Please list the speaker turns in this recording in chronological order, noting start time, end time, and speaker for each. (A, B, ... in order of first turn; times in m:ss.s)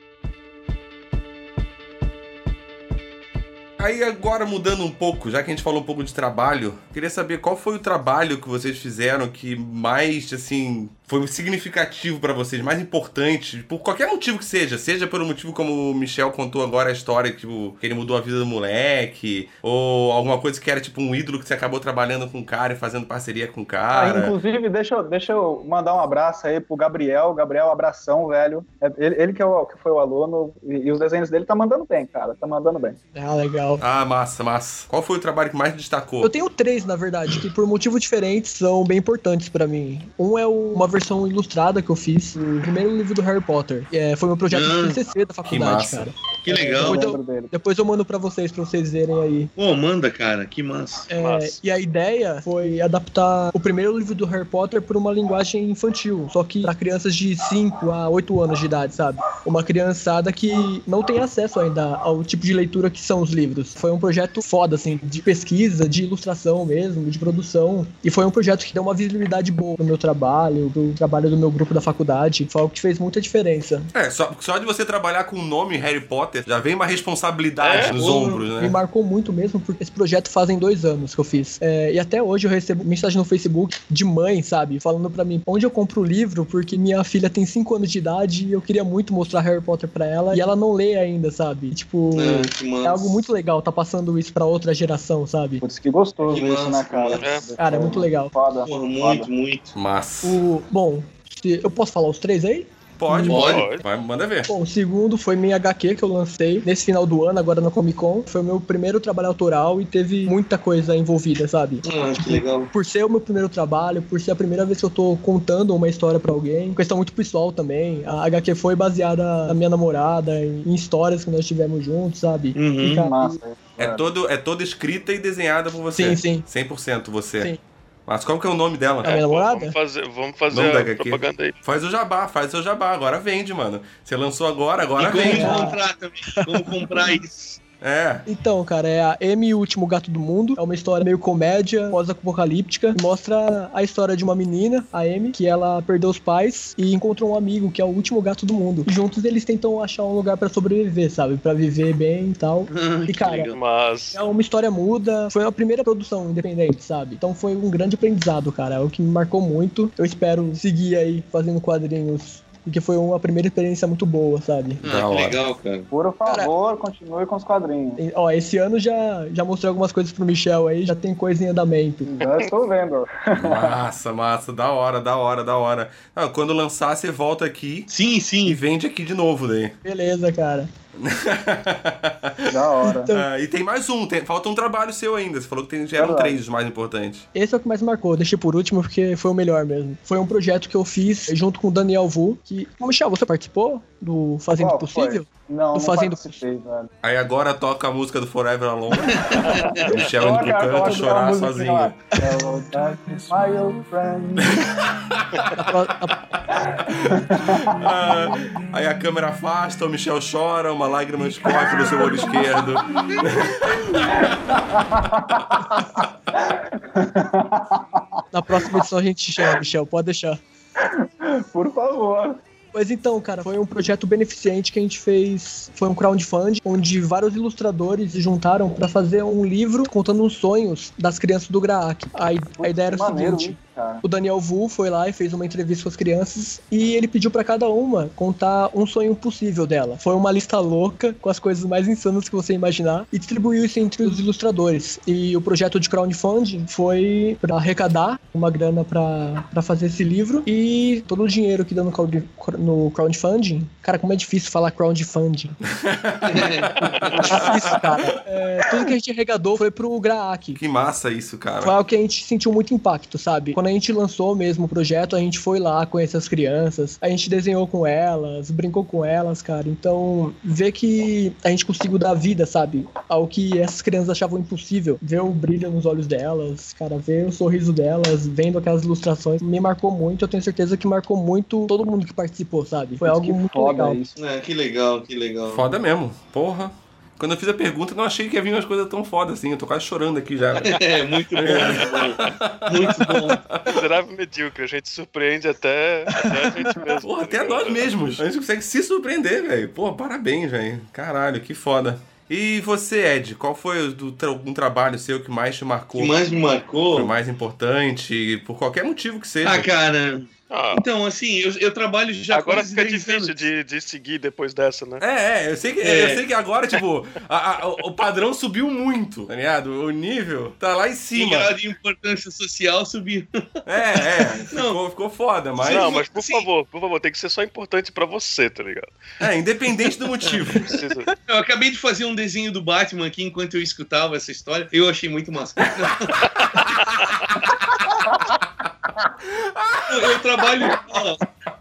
0:03.8-0:24.4 A
0:23.9-0:33.0 B
0:33.1-0:33.8 C
0:33.8-0:36.3 A
0:36.2-0:49.5 C
0:42.4-0:42.6 B
0:44.5-0:45.0 D
0:45.5-0:46.1 A
0:46.4-0:47.1 D
0:46.5-0:47.5 B
0:49.6-0:51.1 D
0:51.1-1:13.9 C
0:51.1-0:51.6 E
1:13.9-1:18.8 A
1:17.6-1:18.0 E
1:17.9-1:18.5 D
1:18.6-1:35.6 C
1:32.1-1:33.3 D
1:35.6-1:39.3 B
1:36.2-1:37.4 D
1:37.2-1:37.5 E
1:37.6-1:38.3 C
1:38.6-1:39.7 D
1:39.7-1:40.4 A
1:40.2-1:43.6 C
1:43.0-1:44.5 A
1:43.3-1:43.6 D
1:43.3-1:43.8 E
1:44.5-2:03.4 C
1:51.8-1:52.7 D
2:02.5-2:03.1 D
2:02.9-2:04.0 B
2:03.8-2:07.5 A
2:05.9-2:06.4 C
2:08.1-2:09.2 A
2:09.0-2:09.8 C
2:09.1-2:11.6 E
2:10.5-2:15.6 A
2:15.0-2:17.6 D
2:15.3-2:15.8 C
2:16.4-2:17.1 C
2:17.8-2:18.2 A
2:18.3-2:33.5 C
2:32.7-2:33.6 D
2:33.5-2:34.2 E
2:34.1-2:44.8 C
2:44.8-2:45.9 D
2:44.8-2:45.4 A
2:45.9-2:48.0 B
2:48.0-2:52.1 C
2:52.1-2:53.8 B
2:53.3-2:57.9 A
2:57.9-2:58.6 D
2:58.4-2:59.8 A
2:59.8-3:00.7 C
3:01.0-3:02.6 A
3:02.5-3:03.1 B
3:02.8-3:03.2 C
3:03.1-3:07.2 A
3:05.9-3:06.4 B
3:07.3-3:16.4 C
3:14.6-3:16.9 B
3:17.0-3:22.0 A
3:19.4-3:24.7 B
3:22.1-3:23.3 C
3:24.5-3:25.4 A
3:25.5-3:26.2 C
3:26.6-3:27.9 B
3:26.8-3:34.3 A
3:31.5-3:32.3 B
3:32.0-3:32.4 C
3:34.0-3:38.0 B
3:38.3-3:40.4 C
3:40.8-3:42.4 B
3:42.7-4:15.6 C
3:52.6-3:54.0 B
4:15.8-4:18.2 A
4:16.3-4:16.8 D
4:17.2-4:20.6 C
4:20.5-4:21.7 A
4:21.6-4:44.0 C
4:43.0-4:44.2 B
4:44.2-4:45.7 D
4:45.5-4:50.8 A
4:50.6-4:53.4 D
4:51.4-4:53.8 A
4:51.5-4:51.8 E
4:53.6-4:57.8 E
4:57.0-5:06.2 A
5:06.0-5:07.1 D
5:06.9-5:09.7 A
5:09.4-5:13.3 D
5:10.5-5:10.8 E
5:12.3-5:15.0 E
5:15.0-5:21.5 A
5:15.8-5:16.2 D
5:21.1-5:24.8 D
5:23.6-5:26.0 A
5:25.6-5:26.5 D
5:25.6-5:28.9 E
5:29.2-5:30.8 A
5:30.3-5:31.1 E
5:31.3-5:36.3 D
5:36.4-5:37.0 E
5:36.5-5:37.5 A
5:37.9-5:38.3 B
5:39.2-5:40.2 A
5:39.9-5:41.2 D